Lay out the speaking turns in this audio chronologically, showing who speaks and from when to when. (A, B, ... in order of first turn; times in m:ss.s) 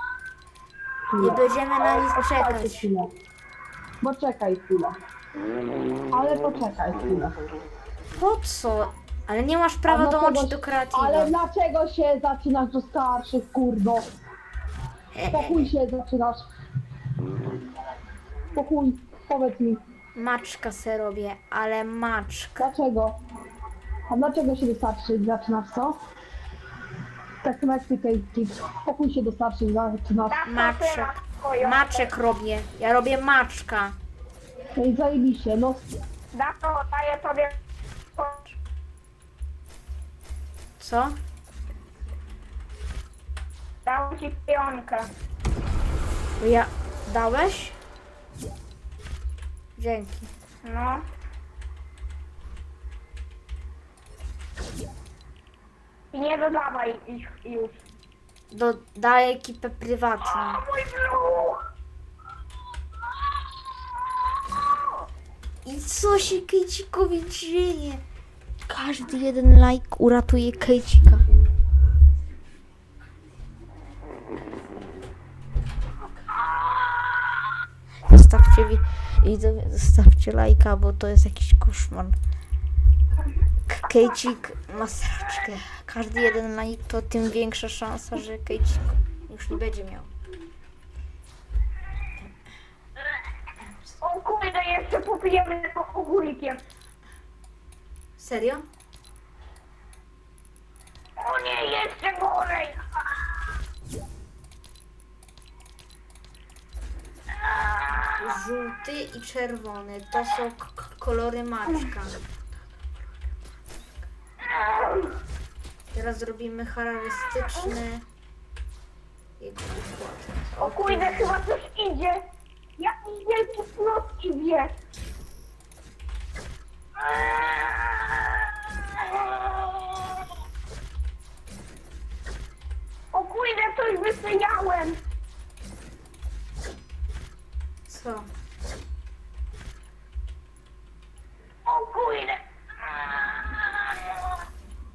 0:01.1-0:01.4 A
0:01.2-0:02.9 B
0:02.1-0:03.1 A
0:04.0-0:04.9 A
0:06.1-0:07.4 A
0:08.2-0:11.3 B
0:09.9-0:14.1 A
0:15.1-0:15.7 B
0:15.3-0:16.4 A
0:18.5-0:19.8 A
0:20.2-0:22.7 B
0:22.6-0:23.2 A
0:24.1-0:26.0 A
0:27.4-0:30.4 A
0:30.3-0:32.1 C
0:30.5-0:34.0 B
0:34.7-0:35.8 A
0:36.3-0:37.6 C
0:38.2-0:38.5 C
0:40.8-0:41.2 B
0:43.8-0:45.1 C
0:46.4-0:47.8 B
0:49.8-0:50.3 B
0:50.6-0:51.0 C
0:56.1-0:57.8 C
0:58.5-1:00.6 B
1:00.3-1:01.6 C
1:04.5-1:04.9 C
1:05.6-1:08.0 B
1:08.7-1:11.2 B
1:18.1-1:22.2 B
1:23.7-1:30.1 B
1:34.0-1:36.6 C
1:38.2-1:38.6 B
1:41.2-1:42.8 C
1:47.4-1:48.2 C
1:48.2-1:52.2 B
1:54.4-1:55.2 C
1:55.9-1:58.0 B
1:59.4-2:01.4 B
2:00.6-2:02.2 C
2:02.8-2:04.7 C
2:07.0-2:10.2 C
2:13.1-2:15.0 C
2:17.9-2:18.3 B
2:21.6-2:24.3 C